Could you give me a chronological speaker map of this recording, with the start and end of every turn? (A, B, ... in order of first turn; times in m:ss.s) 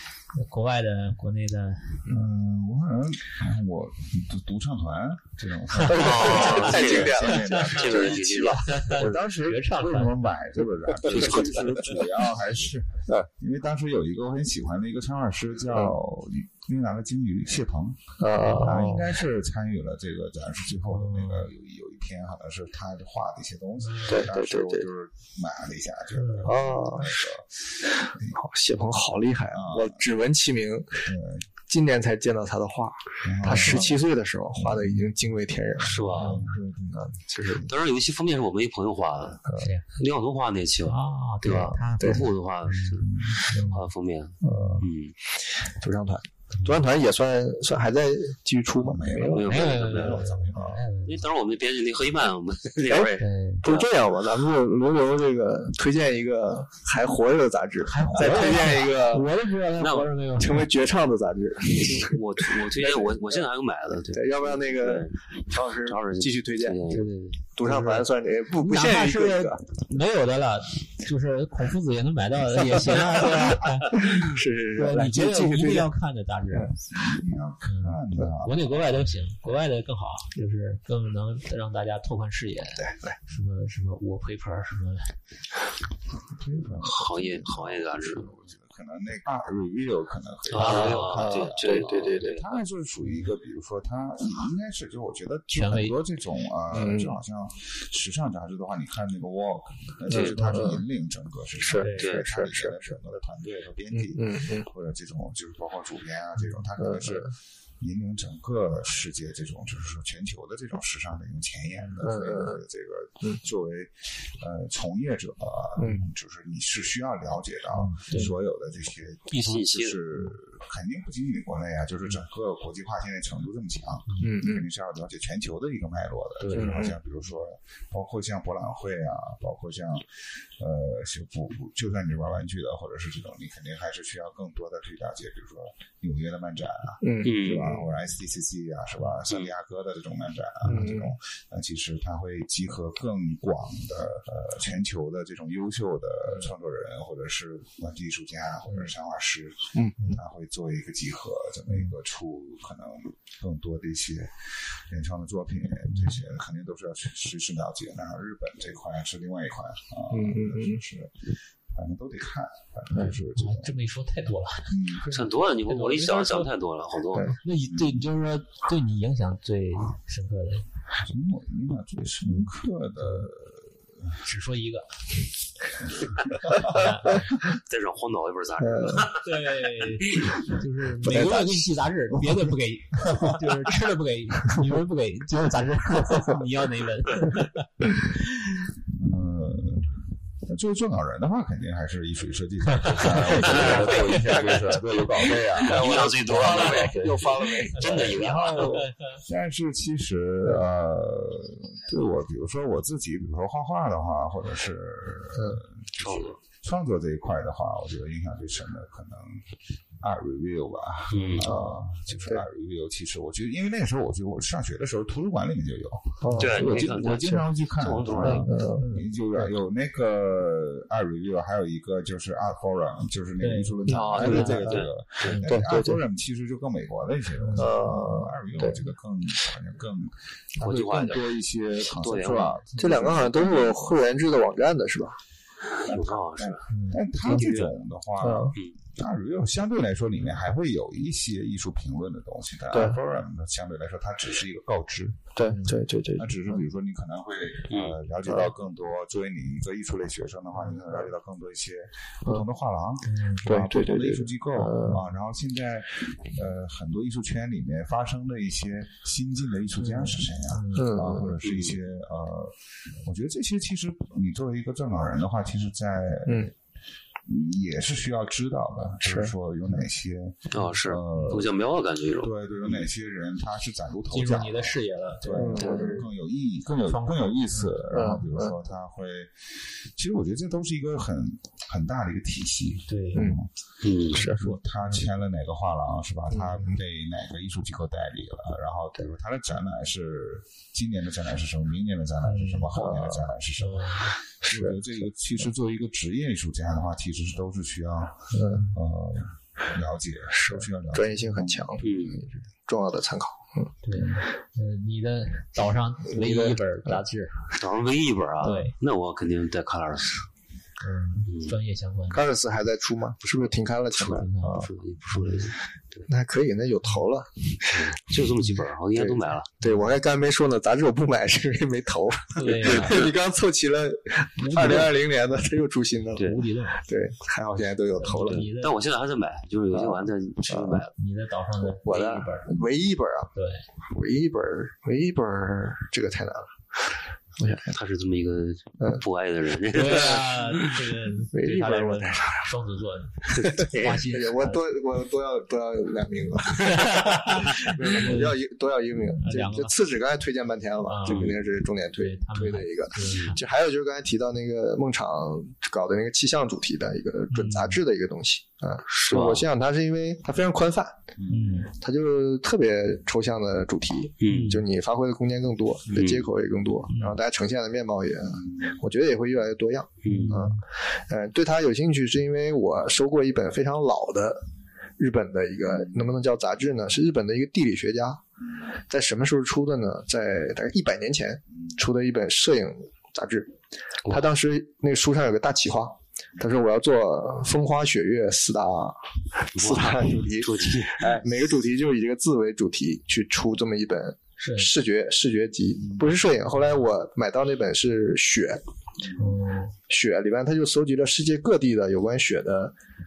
0:00.3-0:02.0 A
0:02.1-0:08.2 B
0:05.7-0:06.8 A
0:05.8-0:08.9 C
0:05.9-0:09.2 D
0:07.3-0:10.3 A
0:08.9-0:18.0 B
0:11.0-0:11.8 C
0:15.7-0:16.0 D
0:18.2-0:19.1 D
0:18.4-0:19.0 A
0:18.6-0:28.4 B
0:20.9-0:21.5 A
0:23.8-0:24.3 A
0:24.1-0:24.9 D
0:26.2-0:26.5 A
0:26.4-0:27.2 D
0:28.3-0:31.1 D
0:29.5-0:30.0 B
0:31.0-0:31.5 B
0:31.7-0:36.4 D
0:33.2-0:34.0 B
0:33.5-0:33.9 A
0:34.5-0:35.1 B
0:35.8-0:36.4 C
0:36.0-0:37.7 B
0:36.1-0:36.5 A
0:36.9-0:37.7 D
0:37.6-0:39.4 C
0:39.6-0:39.8 A
0:40.0-0:45.1 C
0:40.8-0:43.9 A
0:41.5-0:42.2 D
0:43.0-0:43.4 B
0:44.4-0:49.7 D
0:46.5-0:46.8 A
0:48.8-0:50.8 B
0:49.3-0:50.2 C
0:49.4-0:51.2 A
0:51.0-0:53.9 C
0:52.8-0:59.3 D
0:53.2-0:53.6 A
0:57.8-1:00.7 A
0:59.8-1:00.1 C
1:00.4-1:03.4 D
1:01.7-1:05.2 C
1:04.1-1:06.8 D
1:05.7-1:07.0 C
1:06.9-1:08.0 A
1:07.6-1:09.6 D
1:08.6-1:16.8 A
1:13.1-1:15.9 D
1:16.9-1:19.0 B
1:17.6-1:25.1 A
1:22.8-1:23.2 D
1:26.3-2:43.8 B
1:26.8-1:28.3 C
1:30.5-1:32.5 C
1:30.6-1:31.2 A
1:30.6-1:32.3 D
1:35.5-1:36.0 A
1:36.7-1:37.2 D
1:40.1-1:40.4 C
1:40.1-1:40.8 D
1:41.6-1:42.9 D
1:41.8-1:42.2 A
1:42.0-1:42.2 C
1:43.9-1:44.7 D
1:46.8-1:47.3 D
1:52.0-1:52.6 D
1:57.7-1:58.3 A
1:59.3-1:59.6 A
1:59.4-2:00.0 C
2:04.1-2:04.4 A
2:04.2-2:04.6 D
2:06.4-2:06.8 A
2:06.5-2:06.9 D
2:17.0-2:17.9 D
2:17.2-2:17.7 C
2:20.7-2:21.1 D
2:28.6-2:28.9 A
2:40.1-2:40.8 D
2:43.0-2:46.5 A
2:44.7-2:45.1 B
2:45.1-2:47.4 C
2:47.4-2:50.6 A
2:47.7-2:48.0 B
2:51.0-2:54.2 B
2:53.0-2:53.3 A
2:54.2-2:54.9 A
2:56.0-2:56.8 B
2:56.5-2:57.3 A
2:57.1-3:00.3 C
2:58.6-2:59.1 D
2:59.1-3:08.5 A
3:01.0-3:01.7 D
3:08.8-3:17.3 B
3:12.8-3:14.4 A
3:13.4-3:14.6 C
3:13.5-3:14.8 D
3:15.6-3:18.9 C
3:15.6-3:18.8 D
3:17.8-3:19.2 A
3:18.6-3:29.5 B
3:25.3-3:25.6 D
3:26.0-3:26.4 C
3:30.0-3:54.0 B
3:31.1-3:31.5 C
3:31.4-3:32.4 D
3:36.2-3:36.8 D
3:36.4-3:38.5 C
3:38.2-3:39.1 A
3:38.2-3:38.8 D
3:43.4-3:44.7 A
3:43.9-3:45.4 C
3:44.2-3:44.8 D
3:45.2-3:45.5 A
3:45.4-3:46.0 D
3:47.4-3:47.9 A
3:47.6-3:48.9 D
3:50.6-3:51.3 C
3:52.0-3:52.6 C
3:52.7-3:53.0 A
3:52.8-3:55.2 D
3:55.8-4:05.2 B
3:55.8-3:56.6 C
3:56.7-3:57.0 A
3:57.2-3:57.7 C
3:58.2-3:58.5 D
4:02.7-4:03.0 D
4:05.3-4:06.6 D
4:05.4-4:05.8 A
4:06.2-4:26.5 B
4:07.7-4:08.0 C
4:08.2-4:08.5 D
4:13.0-4:13.6 A
4:13.4-4:15.0 D
4:19.8-4:21.1 A
4:20.8-4:21.3 D
4:21.4-4:21.8 C
4:26.2-4:26.5 D
4:27.2-4:31.5 B
4:29.0-4:29.3 D
4:30.5-4:32.8 C
4:32.2-4:43.5 B
4:34.1-4:35.7 A
4:35.3-4:36.1 D
4:35.6-4:35.8 C
4:36.8-4:38.2 A
4:37.9-4:38.5 D
4:42.9-4:43.4 A
4:43.8-4:44.2 C
4:44.1-5:02.2 B
4:44.1-4:44.4 D
4:44.2-4:45.0 A
4:46.3-4:46.7 D
4:52.2-4:52.8 A
4:52.7-4:53.3 D
4:53.6-4:54.2 A
4:54.4-4:54.8 D
4:58.3-4:58.7 D
5:00.3-5:03.7 D
5:01.8-5:02.2 C
5:03.8-5:07.4 A
5:06.1-5:07.0 D
5:07.6-5:10.2 C
5:08.4-5:08.7 A
5:10.8-5:12.2 A
5:11.3-5:11.5 C
5:12.1-5:14.7 D
5:13.2-5:16.1 C
5:14.0-5:15.5 A
5:16.1-5:17.8 D
5:17.7-5:19.5 C
5:18.9-5:28.4 D
5:19.6-5:19.9 A
5:22.4-5:23.1 A
5:22.4-5:23.1 C
5:24.4-5:25.0 A
5:26.2-5:26.8 A
5:28.0-5:28.8 A
5:28.2-5:30.9 C
5:29.7-5:30.8 D
5:31.0-5:32.6 A
5:31.7-5:33.3 D
5:33.3-5:33.6 A
5:33.9-5:37.7 D
5:37.5-5:40.9 C
5:39.7-5:44.7 A
5:41.3-5:42.5 D
5:43.3-5:44.0 C
5:43.6-6:01.0 D
5:46.6-5:48.4 A
5:49.2-5:49.7 A
5:50.8-5:51.4 A
5:51.0-5:51.4 C
5:52.0-5:53.4 A
5:57.3-5:57.8 A
5:58.9-5:59.4 C
6:01.2-6:01.5 B
6:01.3-6:01.7 A
6:01.7-6:14.4 D
6:04.2-6:04.6 C
6:04.3-6:04.6 A
6:05.9-6:06.3 C
6:06.9-6:07.2 A
6:08.3-6:08.8 B
6:10.0-6:10.3 C
6:10.1-6:10.6 A
6:15.0-6:18.2 D
6:15.7-6:16.0 B
6:18.9-6:23.5 D
6:24.0-6:38.6 D
6:29.6-6:31.2 C
6:34.4-6:34.7 A
6:35.8-6:36.1 B
6:39.2-6:39.7 A
6:39.9-6:42.7 D